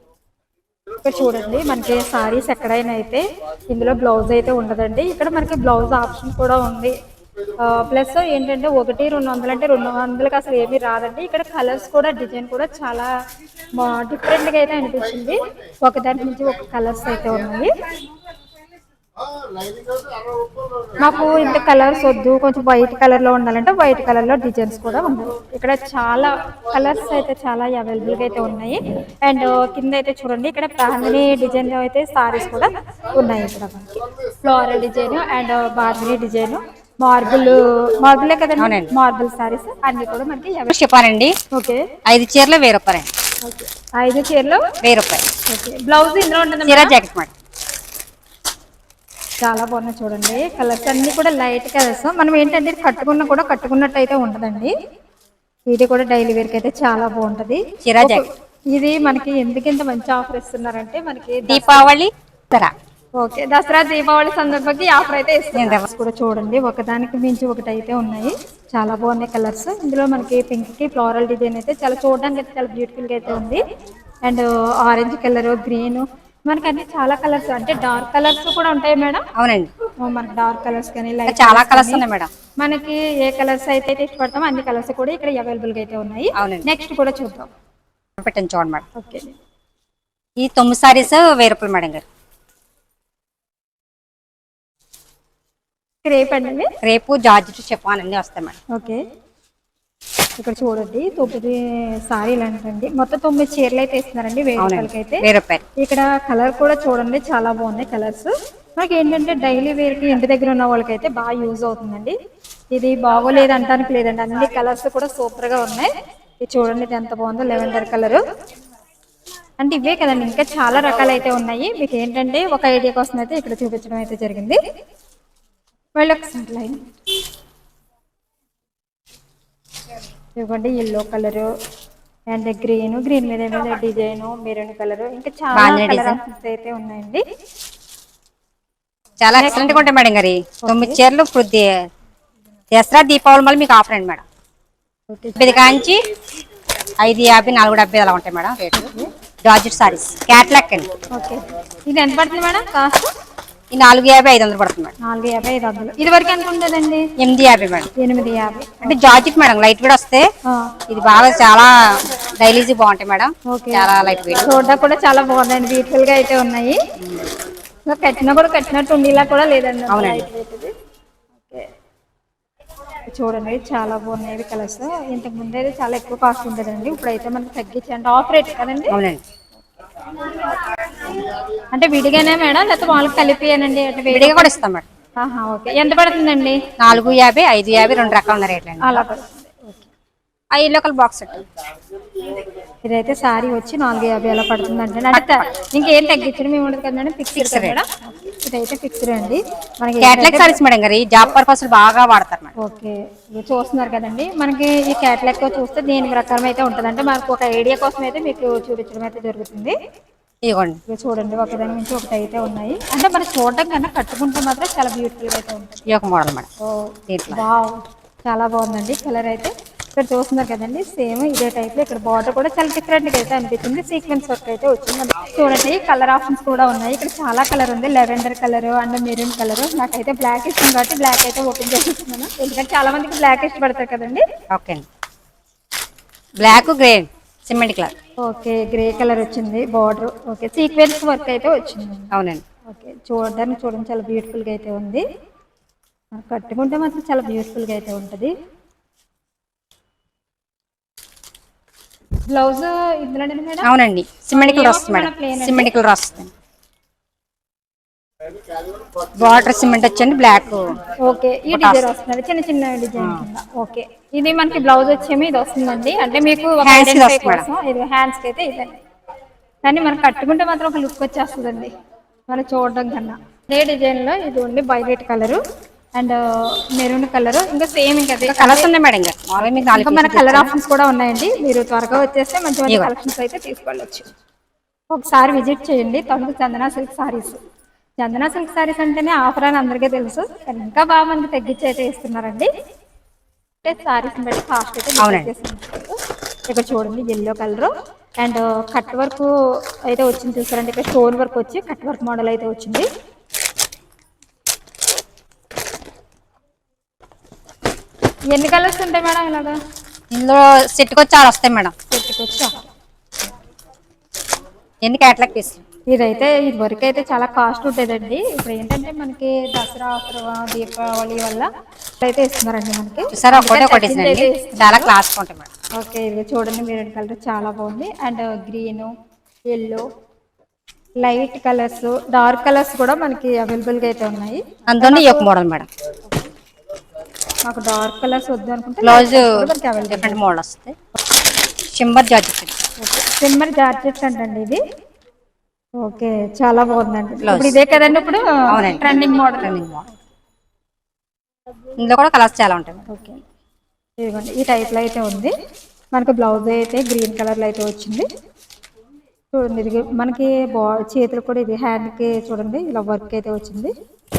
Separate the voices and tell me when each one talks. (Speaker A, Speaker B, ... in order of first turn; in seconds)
Speaker A: 1.0-6.9, 7.6-13.1, 13.8-17.7, 21.0-40.7, 41.5-41.9, 43.4-44.6, 45.5-46.9, 49.4-54.7, 55.7-61.9, 63.2-73.6, 74.2-79.2, 80.0-82.0, 82.6-87.5, 89.0-89.3, 96.0-96.7, 98.7-99.0, 100.4-105.3, 105.8-112.2, 112.7-115.9, 116.4-118.2, 119.6-124.6, 126.0-126.9, 130.4-131.5, 132.3-137.2, 139.4-139.8, 140.6-141.0, 145.1-145.4, 148.7-149.1, 151.1-153.1, 155.0-157.1, 158.0-159.2, 160.5-160.7, 163.5-163.9, 164.4-166.8, 167.9-170.7, 173.1-179.0, 180.2-184.5, 185.2-186.6, 188.8-189.9, 192.8-200.6, 202.6-209.8, 210.9-215.8, 216.6-234.2, 238.2-242.1, 242.7-245.0, 246.1-248.3, 252.3-253.7, 254.3-255.7, 261.0-268.8, 269.6-271.7, 272.3-275.4, 275.9-278.7, 279.6-284.1, 284.9-287.4, 288.0-292.5, 293.6-296.0, 296.5-302.9, 308.3-309.6, 311.9-312.7, 315.9-321.5, 322.0-324.9, 325.8-328.9, 329.5-329.9, 331.0-335.3, 337.4-340.2, 342.8-344.6, 345.8-349.5, 352.9-353.2, 354.0-355.3, 355.9-358.1, 359.3-363.7
Speaker B: 38.6-38.9, 40.7-41.4, 42.1-43.1, 44.8-45.2, 46.7-47.3, 57.8-58.2, 61.5-62.7, 65.5-65.8, 79.4-79.7, 81.3-82.3, 86.4-86.7, 88.2-88.8, 90.4-92.0, 96.8-98.6, 104.6-105.6, 135.5-136.2, 139.2-141.7, 142.7-144.2, 145.4-146.0, 147.0-148.9, 149.4-150.9, 153.7-154.9, 157.2-157.9, 158.8-160.3, 160.9-164.5, 169.9-170.2, 178.9-179.2, 184.1-184.9, 186.8-189.1, 190.5-191.4, 195.1-195.5, 197.3-197.8, 200.0-202.5, 210.4-210.8, 215.9-216.5, 217.1-217.4, 234.5-234.8, 236.4-237.9, 242.1-242.4, 253.6-256.3, 259.2-260.7, 261.5-261.8, 263.0-263.2, 266.6-267.5, 278.2-280.5, 295.0-295.3, 310.1-311.7, 314.8-315.6, 323.1-325.5, 334.7-335.7, 338.8-340.8, 341.7-342.6, 347.2-347.6, 348.5-349.9, 351.8-352.9